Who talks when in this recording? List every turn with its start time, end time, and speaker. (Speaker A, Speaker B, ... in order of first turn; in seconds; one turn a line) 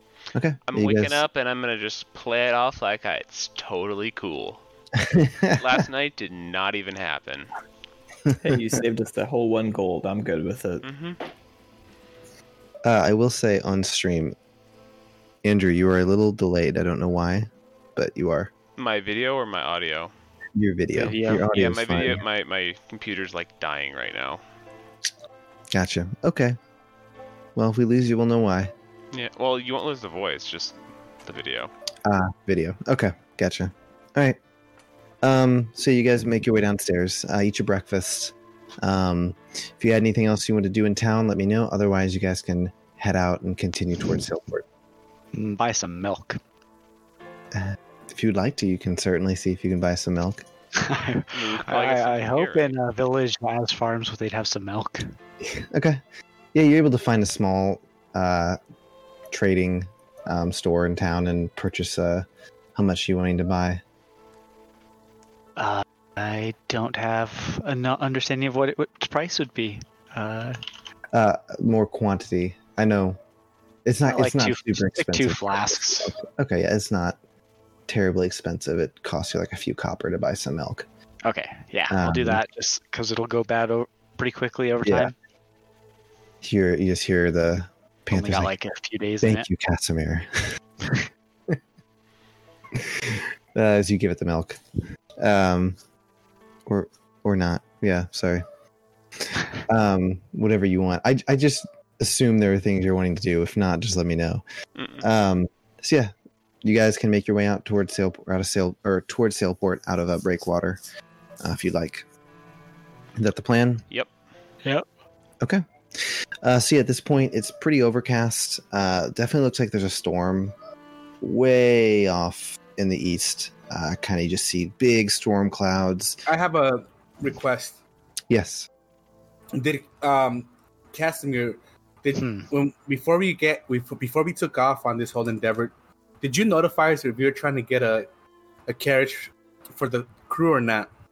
Speaker A: 0.3-1.2
Speaker B: 0.7-4.6
Speaker A: 5.0-5.7
Speaker B: 5.5-7.5
Speaker A: 8.3-8.7
Speaker C: 8.4-10.8
Speaker B: 10.8-11.2
Speaker A: 12.8-14.3
Speaker A: 15.4-18.5
Speaker B: 18.8-20.1
Speaker A: 20.5-22.2
Speaker D: 20.9-21.5
Speaker B: 21.3-24.4
Speaker A: 25.7-26.6
Speaker A: 27.6-28.7
Speaker B: 29.1-31.7
Speaker A: 32.0-34.4
Speaker A: 35.2-44.6
Speaker D: 45.3-46.4
Speaker A: 47.5-50.4
Speaker D: 50.8-55.1
Speaker B: 51.3-52.7
Speaker A: 55.4-56.0
Speaker A: 56.5-58.6
Speaker A: 59.3-63.8
Speaker D: 65.6-70.6
Speaker A: 71.1-73.2
Speaker A: 73.8-77.2
Speaker D: 74.0-76.1
Speaker A: 77.9-80.8
Speaker D: 81.2-85.1
Speaker A: 81.9-82.4
Speaker A: 84.8-85.1
Speaker A: 86.4-88.5
Speaker D: 88.1-89.5
Speaker A: 89.2-90.5
Speaker A: 92.7-94.6
Speaker A: 95.2-95.8
Speaker A: 96.7-98.4
Speaker A: 99.7-104.4
Speaker B: 104.8-105.0
Speaker A: 105.0-106.1
Speaker A: 106.6-110.8
Speaker A: 111.4-112.0
Speaker A: 113.2-113.8
Speaker A: 115.4-120.5
Speaker A: 121.2-126.2
Speaker E: 126.2-127.8
Speaker A: 128.3-128.7
Speaker E: 129.5-138.1
Speaker D: 132.2-132.5
Speaker E: 138.7-140.9